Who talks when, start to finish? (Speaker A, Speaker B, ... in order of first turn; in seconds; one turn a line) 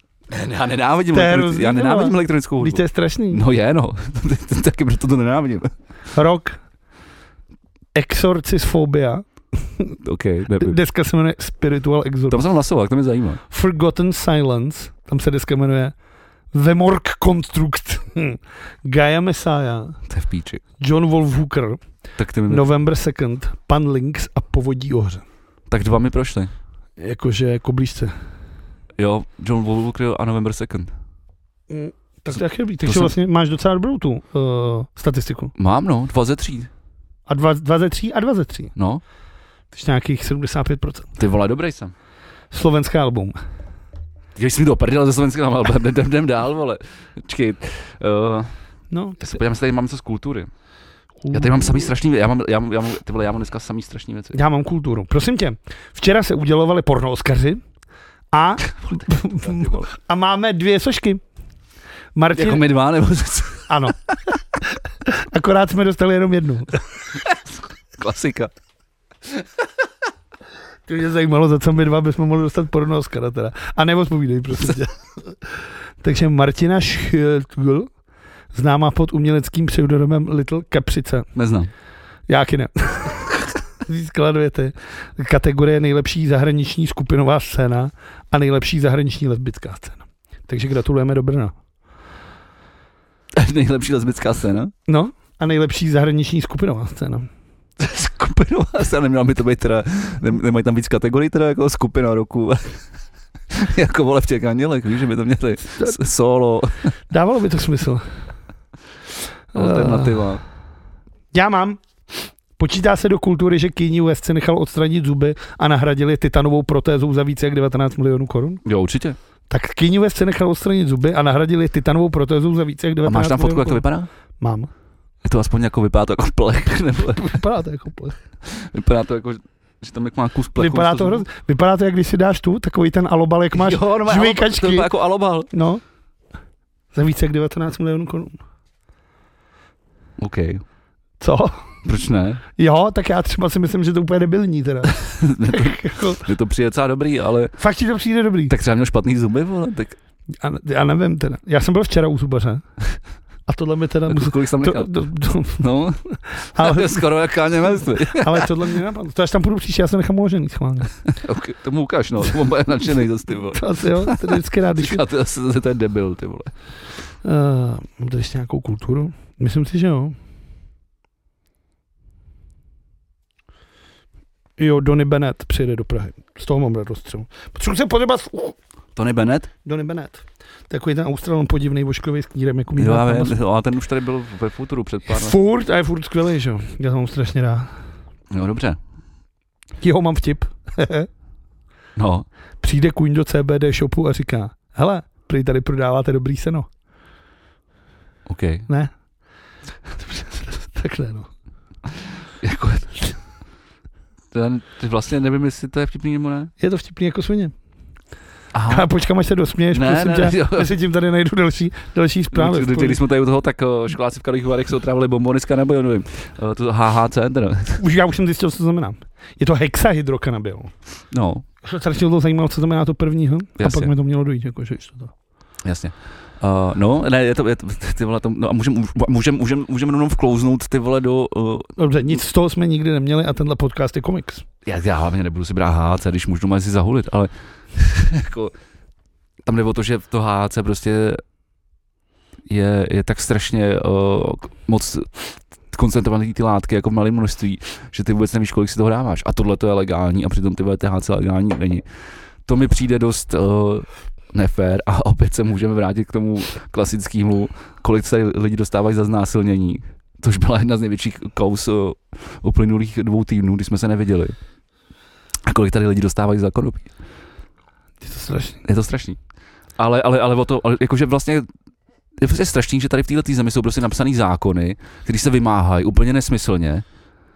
Speaker A: 0.3-5.7
Speaker B: 1.1-3.4
Speaker B: 6.1-6.6
Speaker B: 8.0-10.0
Speaker A: 10.0-10.8
Speaker B: 10.6-12.4
Speaker A: 12.3-13.4
Speaker B: 13.5-15.9
Speaker B: 16.5-20.0
Speaker A: 20.1-20.6
Speaker B: 20.8-21.8
Speaker A: 22.2-22.7
Speaker B: 22.5-25.2
Speaker A: 25.7-26.5
Speaker B: 27.0-28.1
Speaker A: 29.0-30.9
Speaker B: 31.7-35.5
Speaker A: 32.3-33.1
Speaker A: 35.6-36.7
Speaker B: 37.3-38.7
Speaker A: 38.8-39.0
Speaker B: 39.7-41.1
Speaker A: 41.2-41.9
Speaker B: 42.5-43.4
Speaker A: 44.4-48.5
Speaker B: 48.9-49.4
Speaker A: 49.2-50.5
Speaker B: 51.2-51.9
Speaker A: 51.3-54.4
Speaker B: 54.3-57.6
Speaker B: 58.3-61.2
Speaker A: 59.4-59.9
Speaker B: 62.1-62.6
Speaker A: 62.3-63.7
Speaker B: 63.7-64.0
Speaker B: 65.0-66.8
Speaker A: 67.2-68.5
Speaker B: 70.9-75.4
Speaker B: 76.0-77.9
Speaker B: 78.5-81.3
Speaker A: 81.3-81.7
Speaker B: 82.3-91.5
Speaker A: 93.3-94.7
Speaker B: 94.9-97.3
Speaker A: 97.8-102.8
Speaker A: 103.5-106.9
Speaker B: 107.1-108.0
Speaker B: 109.5-110.3
Speaker A: 109.5-110.4
Speaker B: 111.3-118.6
Speaker A: 118.7-119.2
Speaker B: 119.5-123.8
Speaker A: 123.0-124.1
Speaker B: 124.4-124.7
Speaker A: 125.2-127.4
Speaker B: 127.2-128.2
Speaker A: 128.4-131.3
Speaker B: 130.6-134.9
Speaker A: 133.5-135.5
Speaker B: 135.5-135.8
Speaker B: 136.9-138.4
Speaker A: 140.2-140.6
Speaker B: 141.2-141.7
Speaker A: 141.8-142.4
Speaker B: 142.6-146.3
Speaker A: 145.2-147.6
Speaker B: 147.6-148.5
Speaker A: 148.5-150.0
Speaker B: 150.4-152.7
Speaker B: 153.5-155.6
Speaker A: 154.1-154.9
Speaker A: 155.6-158.5
Speaker B: 156.3-157.0
Speaker B: 158.1-161.0
Speaker A: 161.1-166.5
Speaker B: 163.5-165.1
Speaker B: 167.2-170.2
Speaker B: 174.6-178.6
Speaker A: 179.0-179.5
Speaker B: 179.7-183.4
Speaker A: 182.8-185.4
Speaker B: 185.1-187.7
Speaker A: 188.3-188.8
Speaker B: 189.8-191.1
Speaker A: 192.0-192.3
Speaker B: 192.6-196.7
Speaker A: 198.3-198.7
Speaker B: 199.9-201.3
Speaker A: 202.4-203.2
Speaker A: 204.3-206.5
Speaker B: 206.6-207.5
Speaker A: 208.5-208.9
Speaker B: 208.7-213.0
Speaker A: 209.7-210.8
Speaker A: 212.3-217.8
Speaker B: 217.8-220.7
Speaker A: 221.1-221.4
Speaker B: 221.6-225.1
Speaker A: 223.6-223.9
Speaker A: 225.6-231.8
Speaker B: 231.8-234.4
Speaker A: 234.7-238.5
Speaker A: 239.4-241.2
Speaker A: 242.5-251.8
Speaker A: 252.4-264.4
Speaker A: 265.4-266.9
Speaker B: 268.0-268.6
Speaker A: 268.6-269.2
Speaker A: 269.8-271.5
Speaker A: 272.2-276.8